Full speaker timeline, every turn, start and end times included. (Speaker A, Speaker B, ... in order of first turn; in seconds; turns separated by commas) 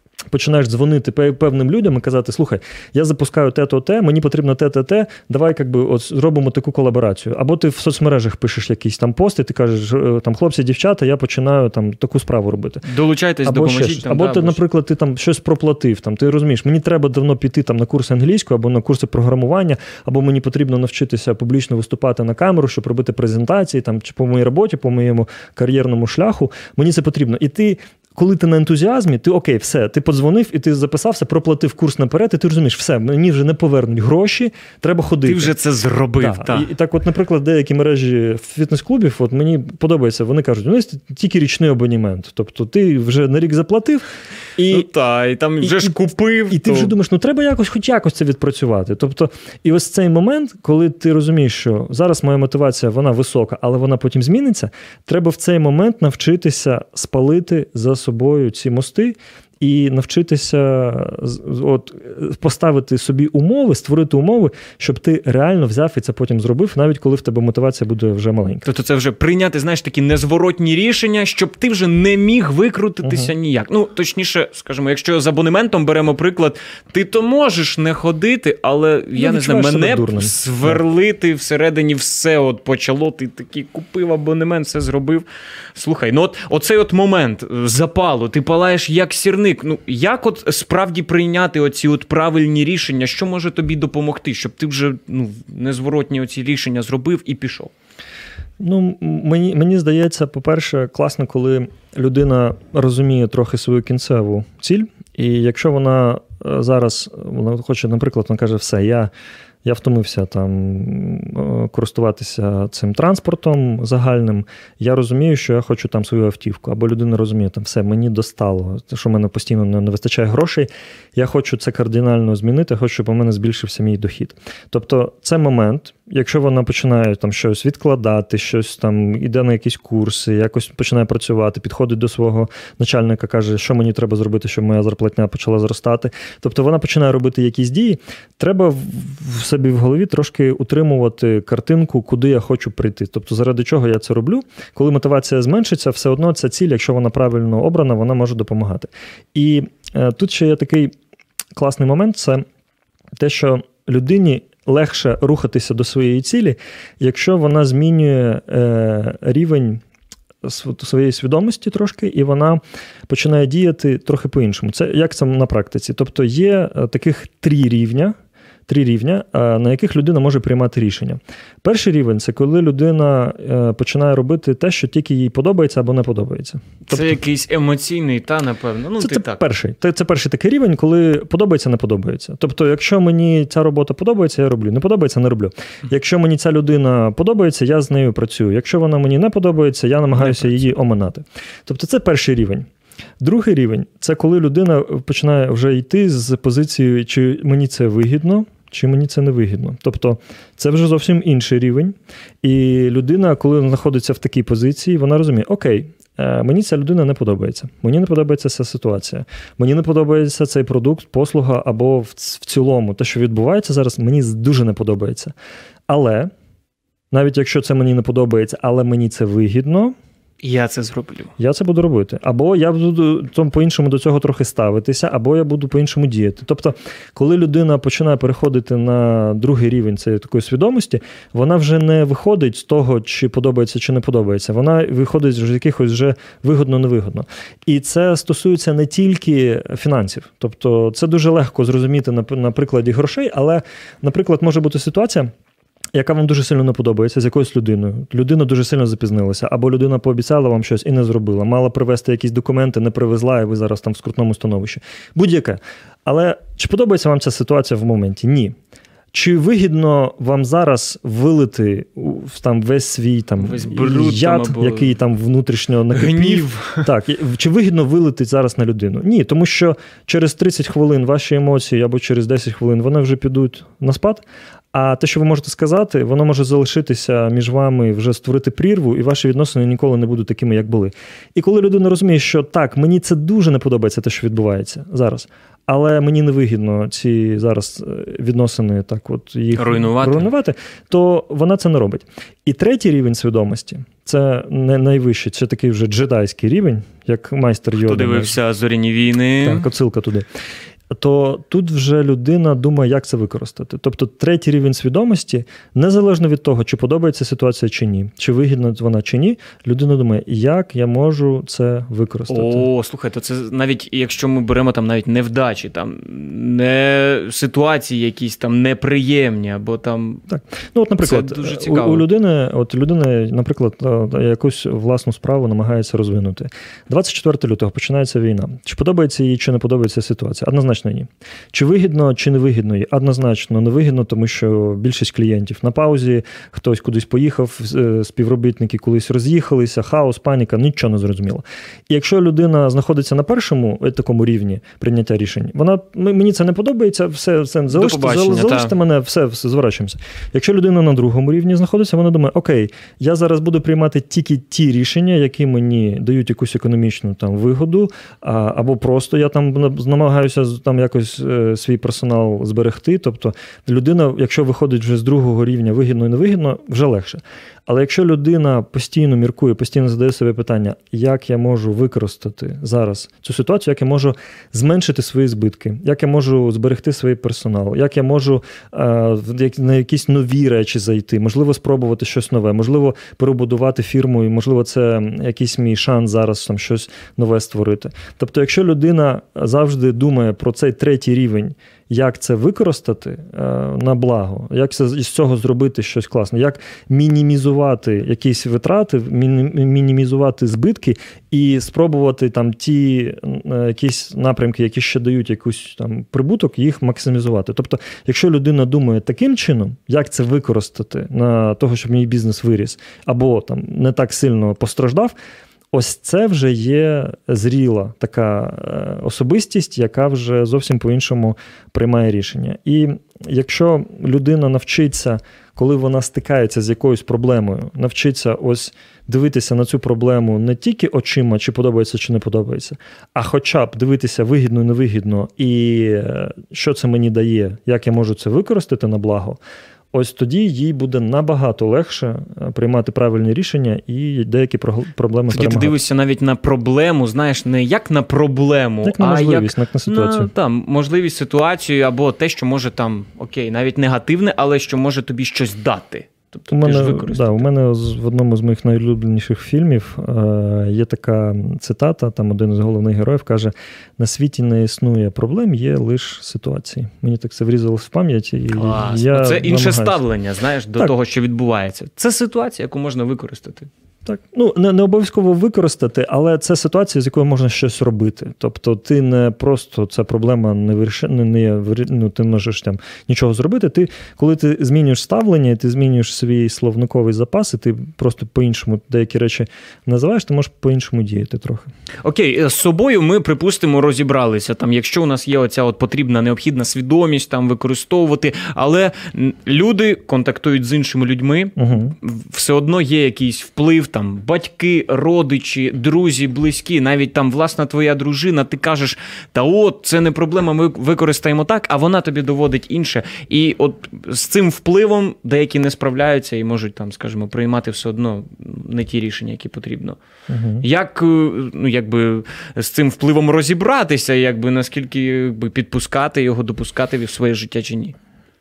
Speaker A: 0.3-12.9, Speaker B: 12.8-14.6, Speaker A: 13.4-35.5, Speaker B: 35.2-36.7, Speaker A: 36.2-44.9, Speaker B: 44.7-46.9, Speaker A: 45.6-45.9, Speaker A: 46.5-68.7, Speaker B: 68.6-97.7, Speaker A: 73.0-73.3, Speaker A: 79.2-80.8, Speaker A: 98.6-109.1, Speaker A: 109.6-150.9, Speaker A: 151.6-152.5, Speaker A: 153.2-159.8, Speaker A: 160.4-177.2, Speaker B: 176.9-179.4, Speaker A: 179.0-192.7, Speaker B: 190.2-190.6, Speaker A: 193.2-215.3, Speaker A: 215.9-216.3, Speaker A: 217.1-219.9, Speaker B: 220.4-221.3, Speaker A: 221.4-245.3, Speaker A: 245.9-258.6, Speaker A: 259.1-298.3, Speaker B: 263.4-264.9, Speaker B: 265.9-266.9, Speaker B: 289.6-290.3, Speaker B: 297.8-299.6, Speaker A: 299.4-300.3, Speaker A: 300.9-312.7, Speaker B: 312.3-320.2, Speaker A: 320.3-415.1, Speaker B: 321.0-322.1, Speaker B: 347.7-348.8, Speaker A: 415.7-439.4, Speaker A: 439.9-445.8, Speaker B: 445.3-457.5, Speaker A: 448.8-450.3, Speaker A: 456.5-470.0, Speaker B: 468.5-473.7, Speaker A: 474.1-491.7, Speaker B: 492.0-520.0, Speaker A: 501.6-501.9, Speaker A: 520.3-520.6, Speaker B: 520.6-528.0